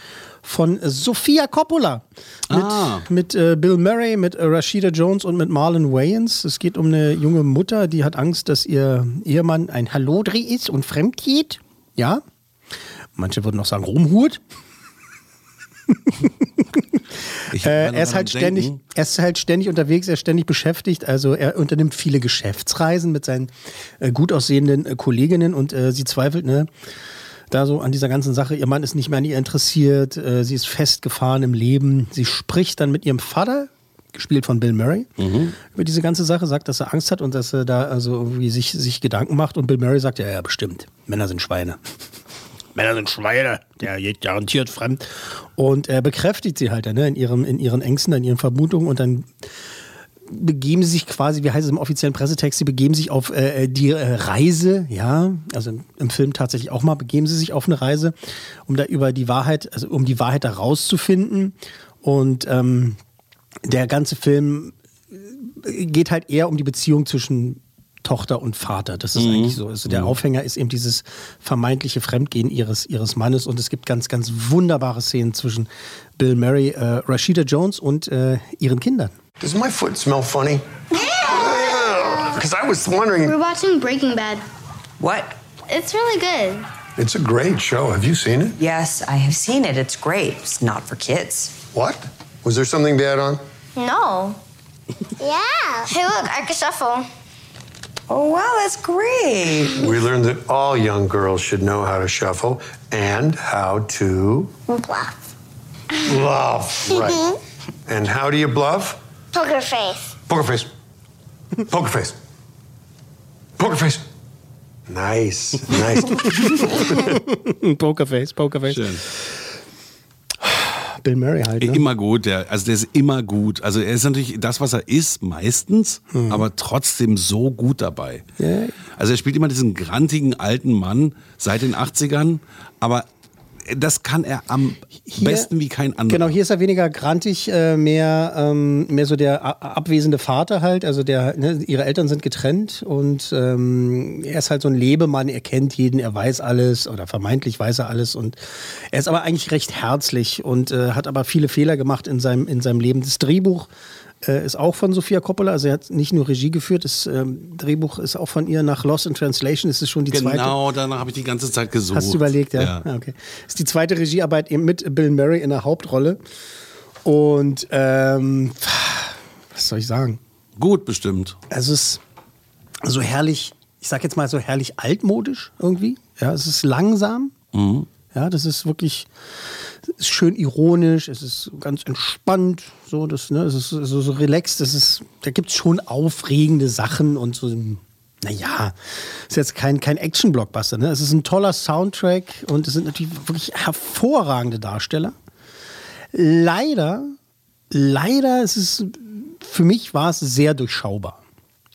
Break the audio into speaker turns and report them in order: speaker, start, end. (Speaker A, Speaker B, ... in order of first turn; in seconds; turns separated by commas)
Speaker A: 0.4-12.2, Speaker B: 2.5-3.1, Speaker A: 13.2-14.4, Speaker A: 16.2-26.7, Speaker B: 17.5-18.8, Speaker A: 27.5-35.1, Speaker B: 35.2-35.6, Speaker A: 35.7-41.8, Speaker A: 42.8-49.3, Speaker A: 50.3-58.1, Speaker A: 58.7-63.0, Speaker A: 63.6-79.1, Speaker B: 69.2-70.2, Speaker C: 79.4-83.3, Speaker D: 81.0-81.8, Speaker D: 83.2-84.4, Speaker E: 85.0-85.3, Speaker D: 85.7-86.7, Speaker C: 87.0-88.6, Speaker E: 88.6-91.5, Speaker C: 91.7-93.4, Speaker D: 93.8-94.4, Speaker D: 95.2-97.1, Speaker E: 98.1-99.8, Speaker C: 99.8-104.5, Speaker D: 104.7-105.2, Speaker C: 106.0-107.2, Speaker D: 106.9-107.4, Speaker C: 107.9-109.0, Speaker D: 109.3-110.1, Speaker C: 110.2-110.7, Speaker C: 111.7-112.2, Speaker C: 113.6-114.0, Speaker C: 114.9-117.1, Speaker A: 117.1-119.2, Speaker B: 118.7-119.0, Speaker A: 120.4-121.8, Speaker B: 121.6-128.2, Speaker A: 126.1-126.5, Speaker A: 128.4-128.8, Speaker B: 129.0-133.1, Speaker B: 133.6-136.3, Speaker A: 135.1-135.5, Speaker A: 136.1-148.4, Speaker A: 148.9-153.7, Speaker A: 154.2-160.6, Speaker B: 160.1-162.8, Speaker A: 161.9-166.2, Speaker A: 167.1-170.2, Speaker B: 170.6-171.4, Speaker A: 171.5-172.0, Speaker A: 172.8-177.3, Speaker B: 177.5-177.9, Speaker A: 178.1-179.1, Speaker A: 180.0-195.2, Speaker A: 196.1-197.2, Speaker A: 197.7-201.2